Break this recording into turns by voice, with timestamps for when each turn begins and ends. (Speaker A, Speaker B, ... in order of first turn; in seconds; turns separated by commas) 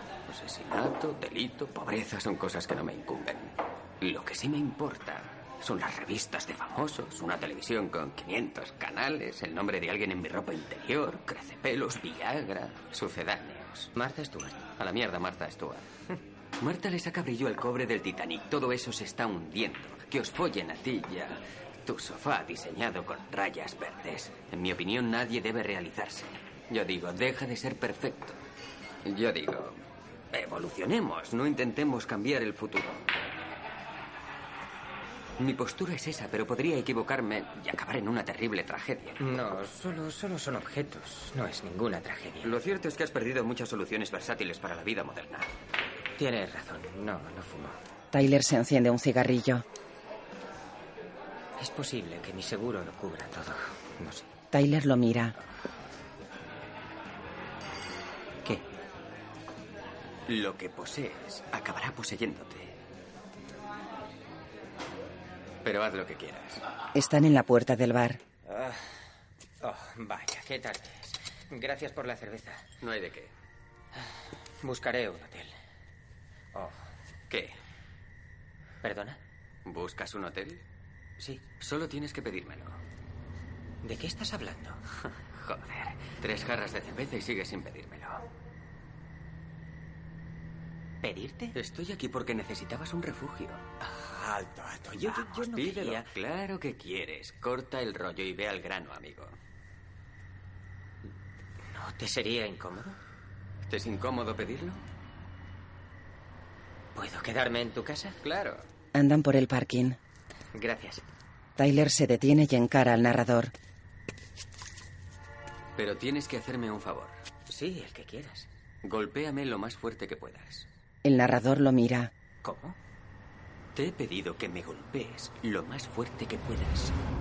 Speaker A: 0.3-13.9, Speaker B: 13.9-14.7, Speaker A: 14.7-15.8, Speaker A: 16.6-28.4, Speaker A: 29.0-29.8, Speaker A: 30.3-33.0, Speaker A: 35.4-39.2, Speaker B: 39.2-42.6, Speaker A: 42.4-45.5, Speaker B: 46.2-47.8, Speaker C: 48.1-49.6, Speaker B: 51.6-54.3, Speaker C: 54.5-55.4, Speaker A: 60.3-62.7, Speaker A: 65.6-66.6, Speaker C: 66.9-68.2, Speaker B: 68.5-68.8, Speaker B: 69.6-72.7, Speaker A: 72.8-73.3, Speaker B: 74.6-75.5, Speaker B: 78.8-79.2, Speaker A: 79.6-80.6, Speaker B: 81.2-81.5, Speaker A: 81.5-82.8, Speaker B: 83.8-84.8, Speaker A: 85.3-88.2, Speaker B: 91.0-91.5, Speaker A: 91.5-93.6, Speaker B: 93.8-96.1, Speaker A: 94.9-99.3, Speaker B: 101.7-103.0, Speaker A: 103.7-104.8, Speaker B: 106.9-108.2, Speaker A: 108.2-108.6, Speaker C: 108.9-110.0, Speaker B: 110.5-111.0, Speaker C: 111.6-113.5, Speaker A: 115.8-117.2, Speaker B: 117.5-118.5, Speaker A: 118.8-120.7, Speaker C: 121.0-122.1, Speaker B: 122.4-122.8, Speaker A: 123.7-126.9